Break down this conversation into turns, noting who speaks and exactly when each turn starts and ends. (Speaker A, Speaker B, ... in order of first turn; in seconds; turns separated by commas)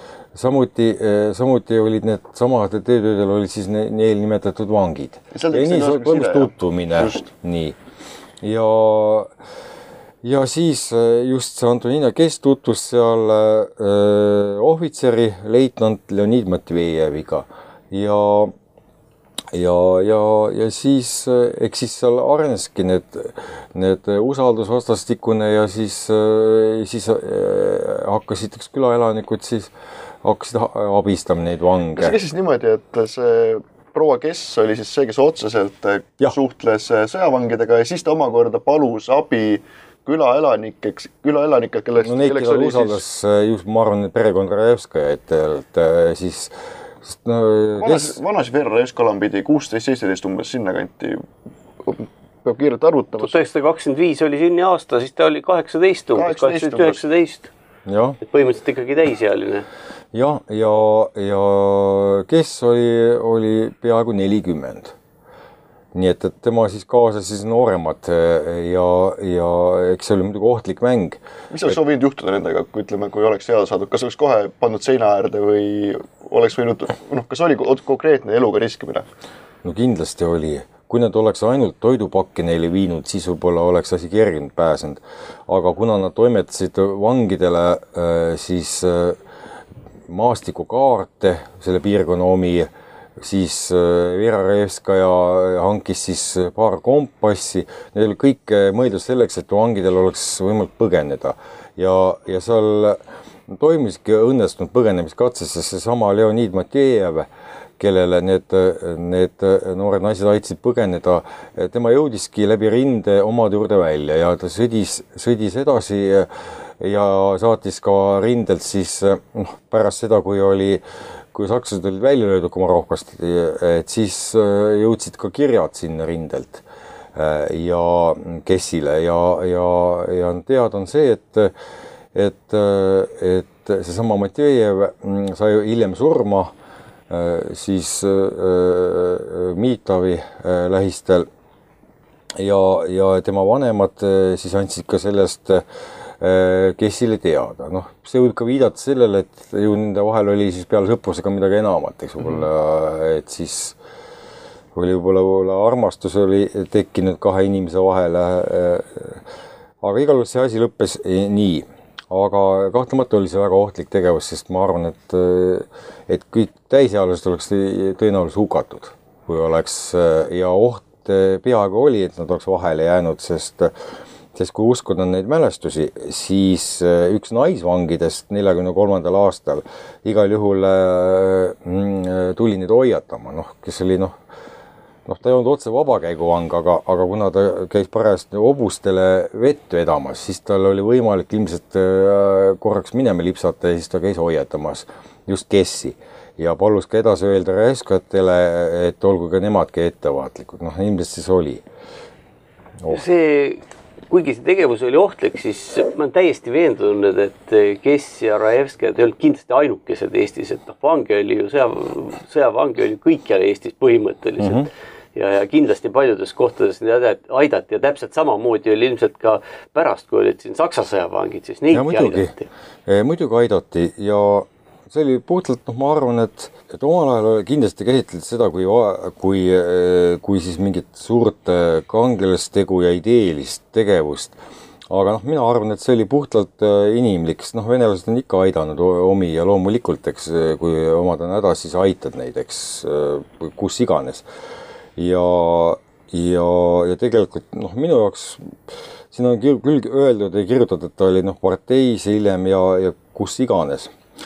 Speaker A: 0.3-7.8, Speaker B: 5.3-7.3, Speaker A: 8.4-9.3, Speaker A: 10.2-18.5, Speaker A: 19.5-29.7, Speaker A: 30.2-32.1, Speaker B: 31.9-43.0, Speaker A: 42.0-48.2, Speaker B: 47.8-51.3, Speaker B: 51.8-53.4, Speaker C: 53.2-57.5, Speaker B: 56.1-57.0, Speaker A: 57.9-58.2, Speaker C: 58.2-59.7, Speaker A: 60.1-64.9, Speaker A: 65.9-71.7, Speaker B: 71.5-79.1, Speaker A: 79.6-89.2, Speaker A: 90.1-107.3, Speaker A: 107.8-120.8, Speaker A: 121.3-126.6, Speaker A: 127.1-131.5, Speaker A: 132.1-136.5, Speaker A: 137.1-141.3, Speaker A: 142.4-145.6, Speaker A: 146.2-153.8, Speaker A: 154.7-159.2, Speaker A: 159.8-173.7, Speaker A: 174.3-184.2, Speaker A: 185.1-201.6, Speaker C: 202.9-222.5, Speaker A: 214.4-214.7, Speaker A: 221.7-222.3, Speaker A: 222.9-234.4, Speaker A: 234.9-244.3, Speaker A: 245.0-248.6, Speaker A: 249.1-253.9